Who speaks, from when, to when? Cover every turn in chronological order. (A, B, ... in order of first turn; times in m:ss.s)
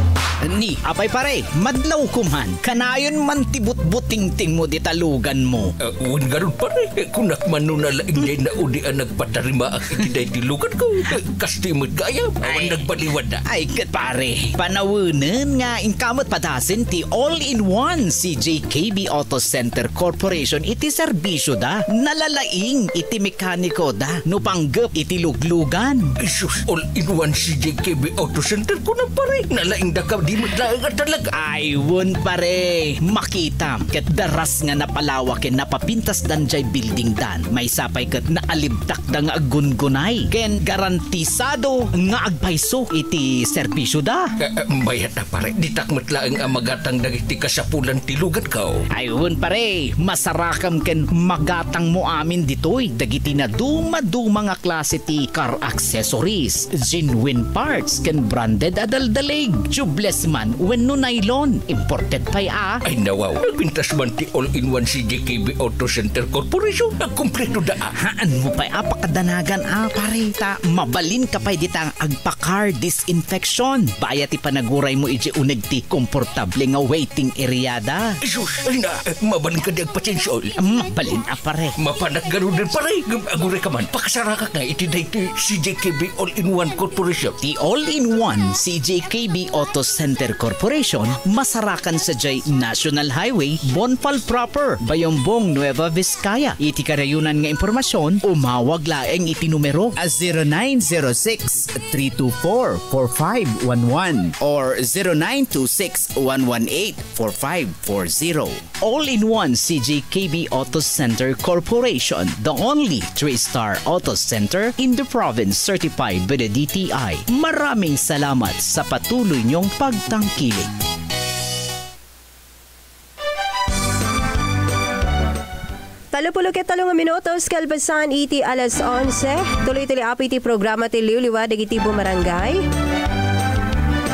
0:00.4-0:05.7 A
0:05.8-0:13.4 B
0:12.5-0:12.8 A
0:13.5-0:26.1 A
0:26.2-0:31.3 B
0:31.4-0:44.3 A
0:44.4-0:48.8 B
0:48.9-1:02.8 A
1:02.8-1:07.9 B
1:08.0-1:18.1 A
1:18.2-1:20.5 B
1:20.6-1:21.7 A
1:21.8-1:27.4 B
1:27.4-2:00.7 A
2:06.1-2:12.6 C